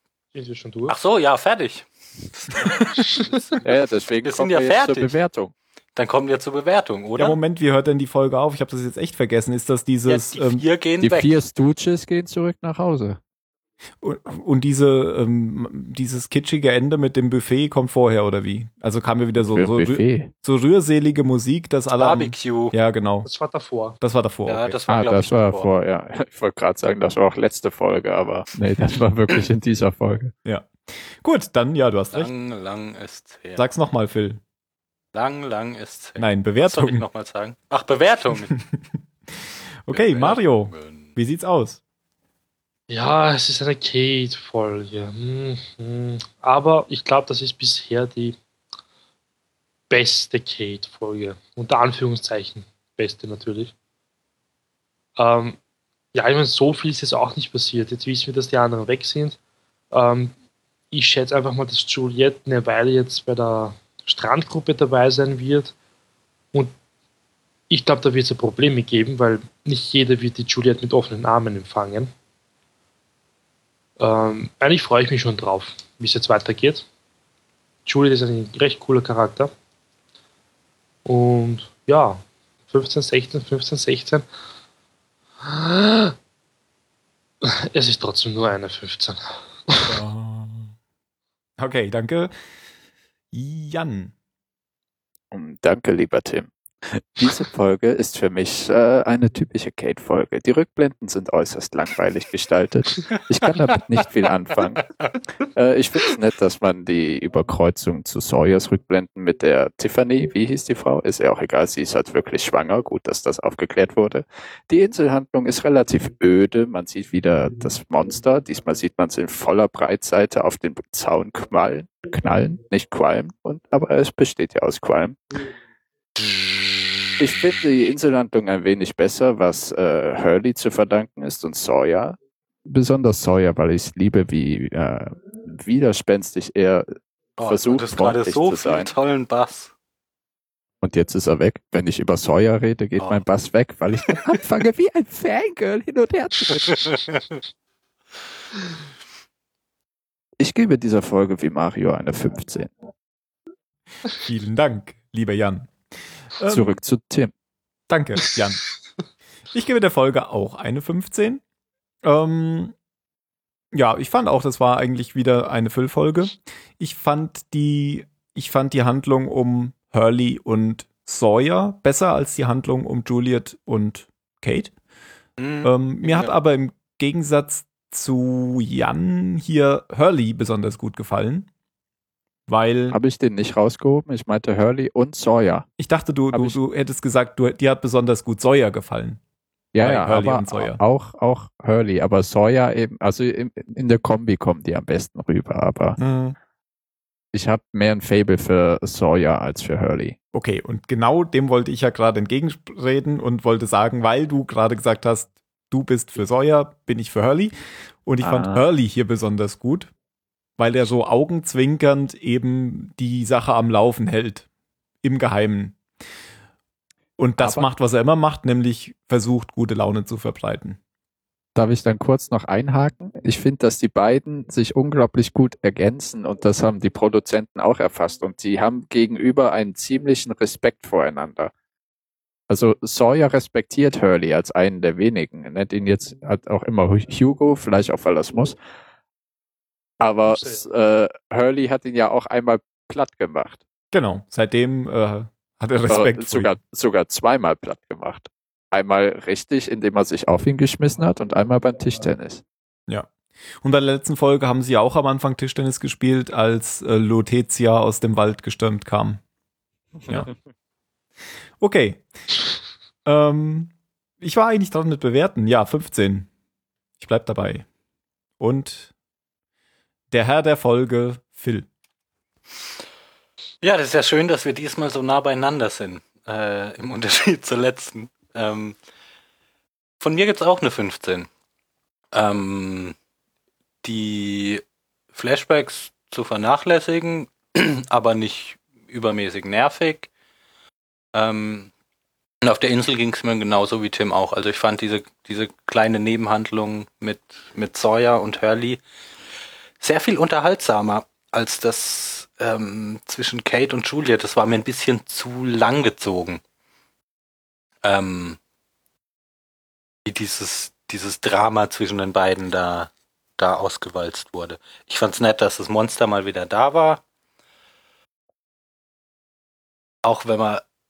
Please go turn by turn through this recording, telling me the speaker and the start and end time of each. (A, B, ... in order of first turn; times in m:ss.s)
0:00.3-0:01.0 A
0:00.9-0:05.1 B
0:03.6-0:05.5 C
0:06.0-0:07.4 B
0:07.2-0:10.6 D
0:10.1-0:11.4 B
0:11.0-0:13.2 C
0:14.0-0:23.3 D
0:19.4-0:20.3 C
0:21.9-0:22.8 B
0:23.2-0:24.0 A
0:24.0-0:24.8 D
0:24.5-0:25.7 B
0:24.9-0:30.3 C
0:30.4-0:32.3 D
0:32.1-0:33.6 B
0:33.6-0:34.4 D
0:35.1-0:38.5 B
0:36.2-0:37.0 D
0:38.5-0:38.8 D
0:39.8-0:41.8 D
0:39.9-0:41.2 B
0:42.9-0:48.4 A
0:49.9-0:53.7 A
0:55.2-0:55.6 A
0:56.1-0:59.4 A
0:59.9-1:00.4 A
1:00.9-1:05.7 A
1:07.7-1:12.1 A
1:14.0-1:16.9 A
1:17.9-1:19.5 A
1:21.0-1:24.3 A
1:25.4-1:26.2 A
1:27.4-1:29.2 A
1:29.9-1:30.7 D
1:31.6-1:32.3 D
1:33.3-1:34.1 D
1:35.3-1:44.9 C
1:45.5-2:05.2 C
2:06.2-2:07.1 B
2:07.2-2:16.9 C
2:17.4-2:19.7 B
2:17.5-2:18.9 C
2:20.8-2:26.9 C
2:23.0-2:23.2 B
2:30.4-2:32.7 C
2:34.1-2:35.7 D
2:36.4-2:36.8 D
2:36.4-2:37.3 C
2:37.9-2:38.6 D
2:39.5-2:41.4 D
2:42.0-2:42.7 D
2:43.7-2:54.7 D
2:55.4-2:56.3 B
2:55.6-3:01.5 D
3:02.5-3:03.0 D
3:02.9-3:05.7 C
3:05.8-3:09.2 D
3:06.3-3:06.6 C
3:09.7-3:16.0 C
3:09.8-3:10.8 D
3:16.0-3:16.4 D
3:17.3-3:20.2 C
3:20.3-3:27.5 D
3:28.0-3:29.9 D
3:28.2-3:28.6 C
3:30.6-3:34.5 D
3:35.0-3:35.8 D
3:37.2-3:40.8 D
3:37.4-3:37.7 C
3:41.6-3:51.5 C
3:52.5-3:58.6 C
4:00.0-4:03.6 C
4:00.3-4:00.6 A
4:03.9-4:06.6 D
4:05.9-4:12.4 C
4:13.6-4:19.2 D
4:21.6-4:22.0 D
4:23.0-4:26.3 D
4:27.0-4:27.6 D
4:28.4-4:28.9 D
4:30.1-4:31.7 D
4:33.6-4:38.8 B
4:40.0-4:41.3 B
4:42.1-4:43.0 B
4:43.8-4:44.6 B
4:45.1-4:50.1 B
4:51.2-4:51.7 B
4:52.4-4:58.8 B
4:59.8-5:06.4 B
5:07.8-5:08.4 B
5:10.1-5:17.0 B
5:20.0-5:20.6 B